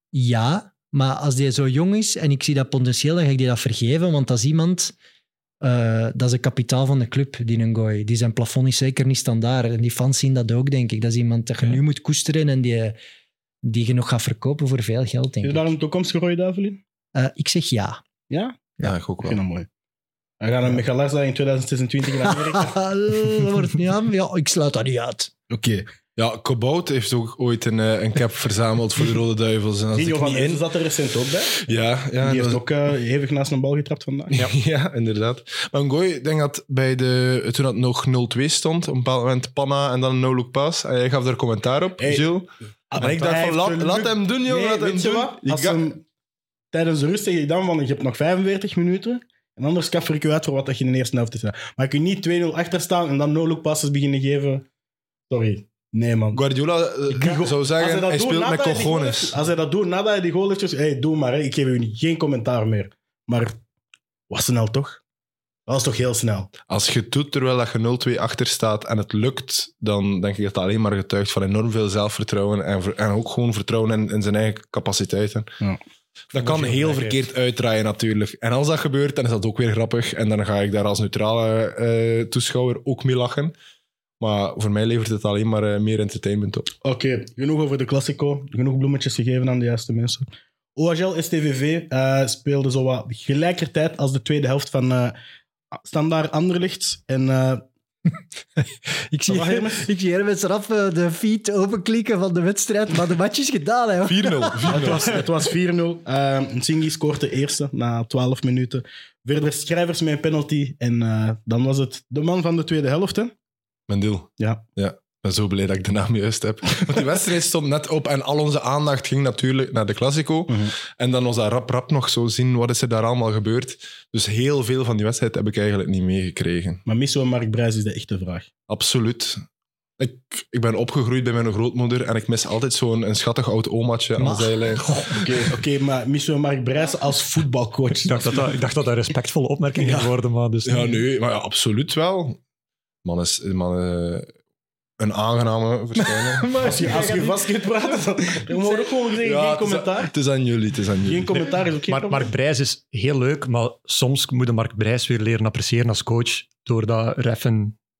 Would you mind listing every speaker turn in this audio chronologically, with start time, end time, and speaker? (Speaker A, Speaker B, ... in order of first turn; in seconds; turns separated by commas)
Speaker A: 0.1-4.9, Speaker A: 5.6-13.0, Speaker A: 13.6-15.7, Speaker B: 15.4-16.8, Speaker A: 17.1-18.0, Speaker B: 18.3-18.6, Speaker C: 18.8-19.4, Speaker B: 19.2-19.7, Speaker B: 20.4-22.8, Speaker A: 22.3-25.3, Speaker B: 25.5-25.9, Speaker C: 26.2-30.6, Speaker B: 29.9-34.4, Speaker C: 31.6-32.6, Speaker C: 34.3-45.8, Speaker B: 42.0-42.4, Speaker B: 42.9-46.0, Speaker B: 46.7-54.6, Speaker B: 55.3-56.4, Speaker C: 56.3-59.4, Speaker B: 57.1-63.6, Speaker B: 64.3-65.0, Speaker B: 65.7-66.5, Speaker C: 66.7-75.5, Speaker C: 76.3-83.5, Speaker B: 76.4-77.2, Speaker C: 84.2-86.7, Speaker B: 86.8-95.2, Speaker B: 95.8-97.6, Speaker A: 98.6-105.0, Speaker B: 99.3-99.9, Speaker C: 104.0-105.2, Speaker B: 104.7-113.3, Speaker C: 113.9-126.8, Speaker B: 114.4-114.6, Speaker B: 126.9-128.5, Speaker C: 128.7-129.4, Speaker C: 130.0-134.9, Speaker A: 134.2-135.3, Speaker B: 135.1-138.5, Speaker D: 138.0-141.0, Speaker C: 139.8-140.1, Speaker C: 140.7-142.4, Speaker C: 143.0-144.3, Speaker C: 145.0-147.0, Speaker A: 146.0-147.7, Speaker B: 146.6-150.1, Speaker A: 148.5-148.9, Speaker C: 149.2-151.5, Speaker B: 151.0-152.3, Speaker D: 151.9-157.8